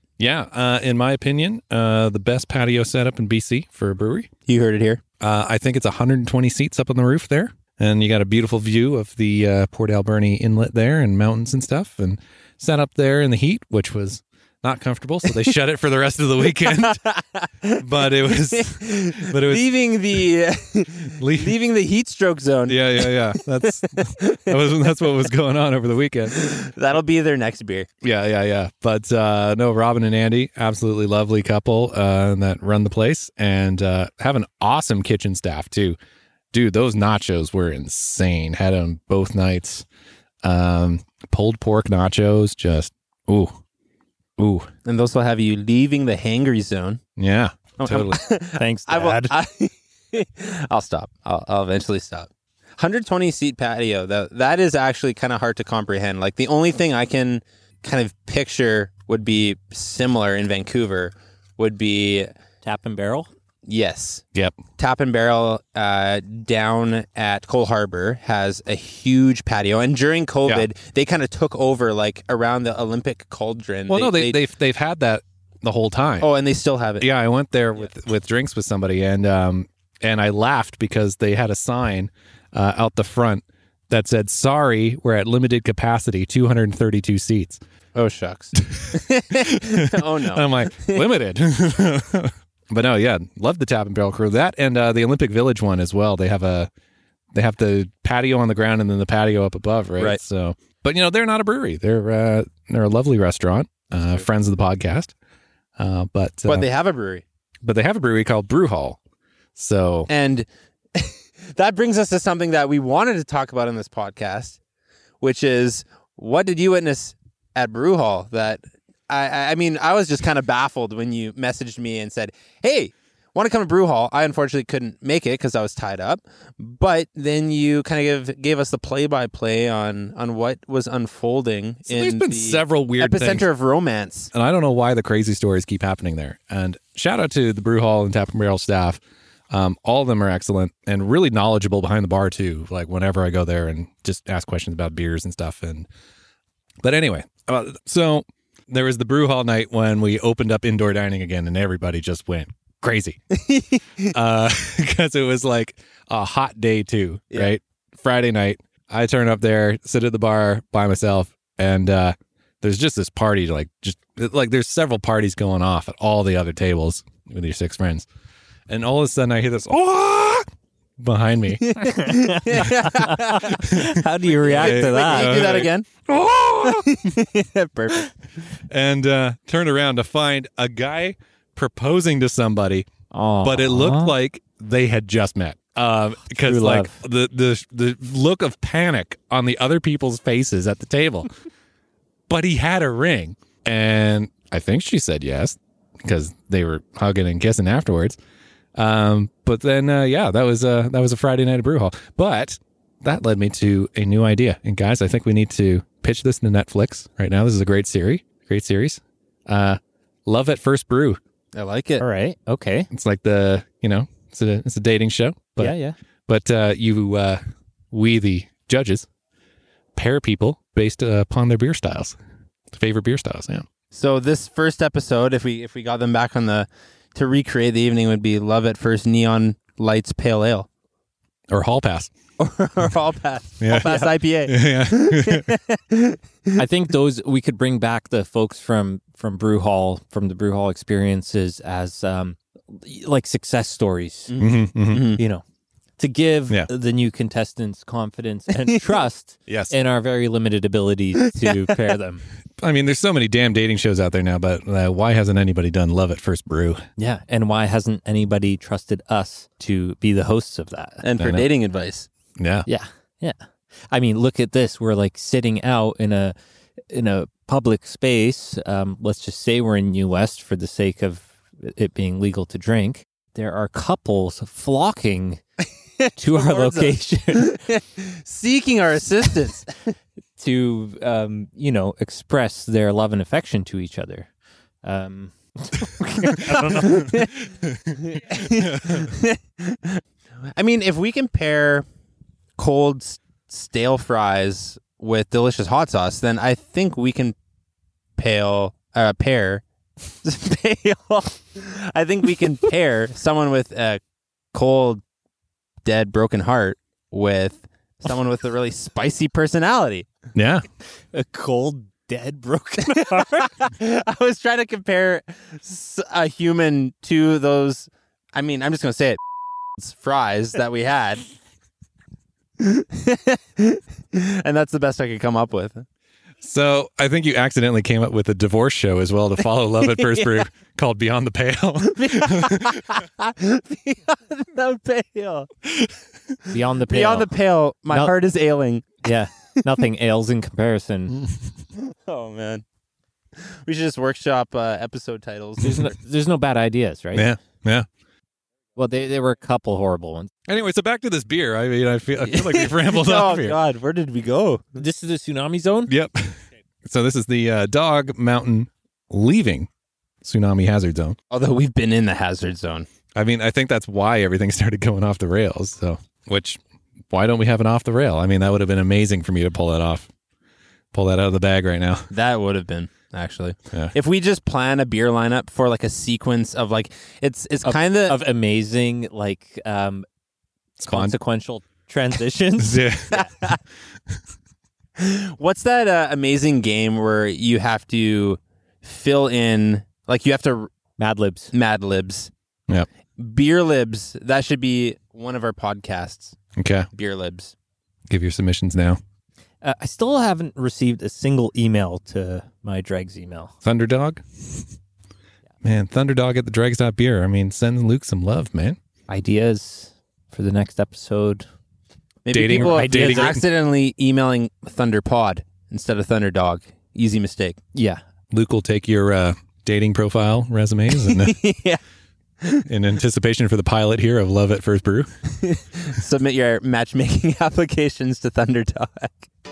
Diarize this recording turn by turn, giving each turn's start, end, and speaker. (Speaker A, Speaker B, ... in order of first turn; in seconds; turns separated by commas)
Speaker A: 0.2-4.3, Speaker B: 4.5-5.0, Speaker A: 5.2-17.0, Speaker B: 16.6-25.0, Speaker A: 17.8-19.6, Speaker A: 21.2-21.5, Speaker A: 22.7-26.4, Speaker B: 26.3-27.9, Speaker A: 28.0-36.0, Speaker A: 36.5-39.9, Speaker A: 40.4-43.5, Speaker A: 44.4-44.7, Speaker B: 44.8-47.0, Speaker A: 47.2-48.2, Speaker B: 47.8-62.3, Speaker C: 48.5-49.3, Speaker C: 62.6-63.3, Speaker B: 63.7-64.2, Speaker A: 64.3-64.6, Speaker B: 64.8-74.4, Speaker A: 73.9-76.3, Speaker B: 76.2-77.1, Speaker A: 77.0-87.6, Speaker B: 87.9-91.1, Speaker A: 88.7-96.7, Speaker A: 97.3-105.1, Speaker A: 105.8-106.7, Speaker B: 106.5-107.2, Speaker A: 107.6-109.0, Speaker A: 109.5-110.1, Speaker B: 110.1-114.6, Speaker B: 115.2-134.3, Speaker A: 131.9-133.4, Speaker A: 134.3-145.9, Speaker A: 146.8-153.2, Speaker B: 153.3-154.1, Speaker A: 154.1-168.1, Speaker A: 168.7-170.4, Speaker A: 171.0-171.6, Speaker B: 171.6-175.8, Speaker C: 171.8-175.6, Speaker A: 173.5-174.0, Speaker A: 174.5-177.0, Speaker B: 176.6-178.1, Speaker A: 178.7-182.9, Speaker C: 183.1-184.1, Speaker A: 183.4-191.3, Speaker C: 186.4-186.9, Speaker A: 192.3-198.2, Speaker A: 198.8-211.2, Speaker B: 211.5-212.0, Speaker C: 212.0-212.9, Speaker A: 212.9-215.7, Speaker C: 215.6-215.9, Speaker A: 216.3-217.4, Speaker A: 217.9-219.1, Speaker A: 219.9-222.2, Speaker A: 222.7-223.7, Speaker B: 223.9-230.7, Speaker A: 231.5-232.1, Speaker B: 232.4-236.6, Speaker A: 233.6-235.5, Speaker C: 236.6-244.3, Speaker B: 244.3-245.2, Speaker A: 244.4-245.1, Speaker C: 245.2-245.4, Speaker C: 246.0-252.2, Speaker A: 249.5-249.7, Speaker B: 251.2-251.8, Speaker A: 252.6-256.8, Speaker C: 257.0-261.0, Speaker B: 261.0-262.1, Speaker A: 261.2-261.5, Speaker A: 262.4-262.7, Speaker C: 262.7-263.4, Speaker C: 263.9-266.3, Speaker C: 266.9-275.4, Speaker B: 276.0-279.9, Speaker C: 276.1-277.6, Speaker C: 280.4-284.3, Speaker C: 284.8-287.2, Speaker B: 286.5-287.4, Speaker A: 287.6-288.0, Speaker B: 287.9-291.9, Speaker A: 288.5-289.1, Speaker B: 292.6-297.3, Speaker B: 298.2-299.6, Speaker B: 300.2-304.0, Speaker B: 304.5-305.0, Speaker B: 305.8-310.1, Speaker A: 310.3-310.6, Speaker C: 311.1-313.5, Speaker B: 312.8-319.2, Speaker B: 319.8-321.2, Speaker B: 322.6-325.9, Speaker A: 326.4-332.8, Speaker B: 329.8-330.4, Speaker B: 331.9-335.5, Speaker C: 336.5-337.3, Speaker B: 336.9-339.1, Speaker C: 339.0-341.2, Speaker B: 341.7-342.6, Speaker B: 343.4-345.9, Speaker C: 345.6-347.3, Speaker A: 347.1-347.9, Speaker C: 348.8-350.3, Speaker A: 350.5-353.6, Speaker B: 352.2-354.8, Speaker C: 354.8-355.9, Speaker A: 355.9-359.7, Speaker A: 360.2-361.2, Speaker B: 361.3-362.9, Speaker A: 363.1-370.1, Speaker A: 370.9-372.1, Speaker B: 372.1-378.1, Speaker C: 377.6-380.1, Speaker A: 380.8-381.1, Speaker C: 380.8-383.3, Speaker A: 382.6-383.1, Speaker B: 383.1-383.6, Speaker B: 385.0-390.7, Speaker C: 391.0-391.5, Speaker B: 391.5-392.3, Speaker B: 393.2-396.4, Speaker A: 396.6-396.9, Speaker B: 396.9-397.5, Speaker A: 398.1-399.0, Speaker C: 399.6-403.5, Speaker A: 403.6-404.7, Speaker A: 405.6-408.8, Speaker C: 409.1-411.5, Speaker B: 412.2-417.6, Speaker A: 412.3-413.4, Speaker C: 412.4-413.4, Speaker C: 417.7-418.0, Speaker A: 418.3-421.4, Speaker B: 420.9-421.8, Speaker A: 422.6-425.1, Speaker B: 425.4-429.3